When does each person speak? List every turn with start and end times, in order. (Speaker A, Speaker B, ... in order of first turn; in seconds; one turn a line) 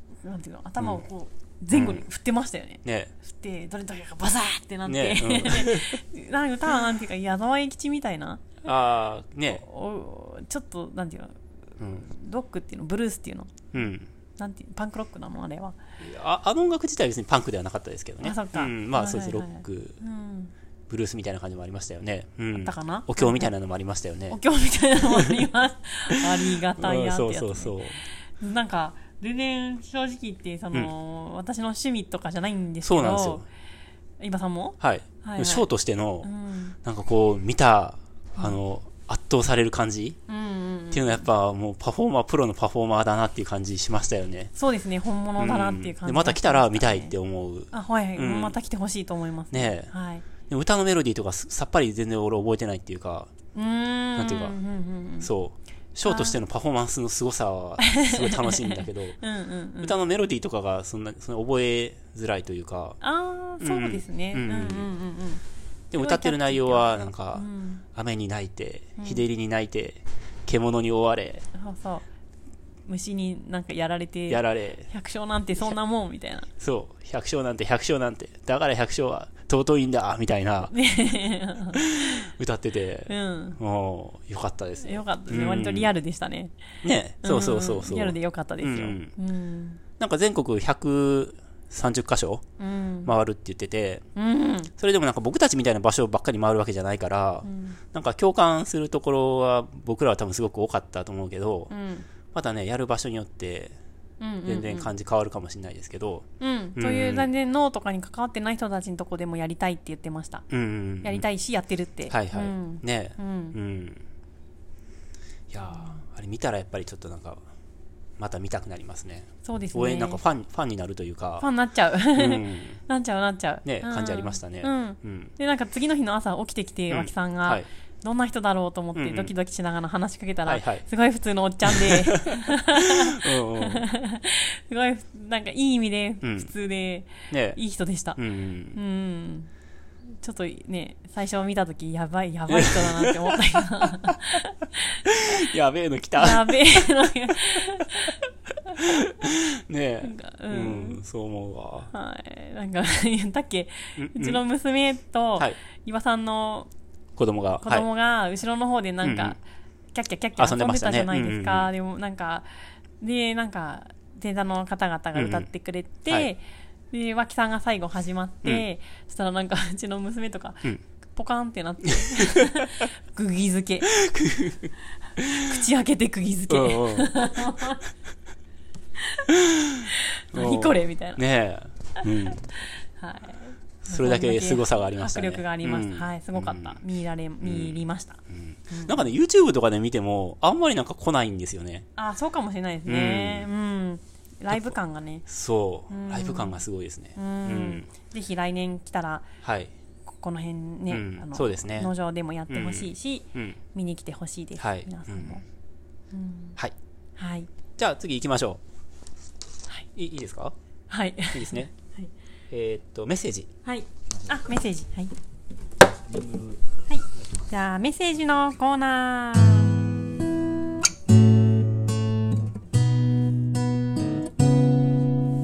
Speaker A: 0.2-8.6
Speaker B: 1.7-2.0
Speaker B: 2.8-3.1
Speaker B: 4.8-6.0
Speaker B: 8.6-9.6
Speaker A: 9.5-11.3
Speaker A: 11.9-13.7
Speaker B: 13.7-14.1
Speaker A: 14.4-15.8
Speaker B: 16.0-20.0
Speaker A: 18.2-20.5
Speaker B: 20.9-24.4
Speaker A: 22.5-23.5
Speaker A: 24.3-27.8
Speaker B: 25.0-25.4
Speaker B: 26.1-28.0
Speaker A: 28.4-33.4
Speaker B: 32.8-33.4
Speaker A: 34.2-35.7
Speaker B: 34.8-36.3
Speaker A: 36.2-36.8
Speaker B: 36.8-40.2
Speaker A: 40.3-41.2
Speaker B: 40.9-44.5
Speaker A: 44.5-47.1
Speaker B: 45.4-48.6
Speaker A: 47.7-50.2
Speaker B: 49.5-49.9
Speaker B: 50.5-53.3
Speaker A: 53.5-55.3
Speaker B: 54.2-54.6
Speaker B: 55.2-59.2
Speaker A: 56.0-56.4
Speaker A: 57.8-60.0
Speaker B: 59.8-63.0
Speaker A: 63.0-65.4
Speaker B: 63.6-64.9
Speaker B: 65.9-71.4
Speaker A: 66.0-67.8
Speaker A: 69.0-69.2
Speaker A: 71.5-72.0
Speaker A: 72.9-76.5
Speaker B: 74.3-74.9
Speaker B: 76.6-80.7
Speaker A: 80.7-82.2
Speaker B: 81.8-85.9
Speaker A: 83.1-83.6
Speaker A: 84.8-86.5
Speaker B: 86.8-89.1
Speaker A: 87.2-89.8
Speaker B: 90.0-92.4
Speaker A: 92.6-93.1
Speaker B: 93.0-94.0
Speaker A: 94.1-94.7
Speaker B: 94.8-101.7
Speaker A: 97.4-97.8
Speaker A: 101.7-102.1
Speaker B: 102.3-103.8
Speaker A: 104.2-104.9
Speaker B: 104.5-107.3
Speaker A: 106.4-110.5
Speaker B: 110.5-111.2
Speaker A: 111.0-113.5
Speaker B: 112.1-114.0
Speaker B: 115.5-117.4
Speaker A: 115.7-116.0
Speaker B: 118.2-121.5
Speaker A: 119.4-120.2
Speaker A: 121.4-138.2
Speaker B: 122.2-122.8
Speaker B: 123.6-125.3
Speaker B: 126.9-127.7
Speaker B: 128.9-129.3
Speaker B: 130.4-130.8
Speaker B: 131.6-133.8
Speaker B: 136.2-136.5
Speaker B: 137.3-137.6
Speaker B: 138.2-138.8
Speaker A: 138.7-139.5
Speaker A: 140.2-145.4
Speaker B: 142.5-144.2
Speaker B: 145.1-148.1
Speaker A: 146.2-148.2
Speaker B: 148.7-151.9
Speaker A: 150.0-151.0
Speaker A: 151.9-156.7
Speaker B: 154.0-154.4
Speaker B: 157.2-157.9
Speaker A: 157.6-159.4
Speaker B: 159.0-159.4
Speaker A: 159.9-162.5
Speaker B: 160.4-161.7
Speaker A: 163.0-174.0
Speaker B: 165.1-165.5
Speaker B: 172.2-172.4
Speaker B: 173.9-175.4
Speaker A: 175.3-177.8
Speaker B: 176.5-177.7
Speaker A: 179.0-181.2
Speaker B: 179.3-182.5
Speaker A: 182.0-182.3
Speaker A: 182.9-189.1
Speaker B: 183.8-186.8
Speaker B: 187.4-187.8
Speaker B: 188.3-191.9
Speaker A: 191.9-195.2
Speaker B: 192.9-193.5
Speaker B: 195.3-197.9
Speaker A: 195.9-196.6
Speaker A: 197.2-199.3
Speaker B: 199.4-199.7
Speaker A: 200.1-205.4
Speaker B: 200.9-201.9
Speaker B: 202.5-203.6
Speaker B: 204.6-205.4
Speaker A: 206.1-206.6
Speaker A: 207.2-207.5
Speaker B: 207.8-208.6
Speaker B: 209.9-210.5
Speaker A: 210.9-212.1
Speaker B: 211.3-211.7
Speaker B: 212.5-213.5
Speaker A: 213.6-215.1
Speaker B: 216.1-216.6
Speaker A: 216.9-219.8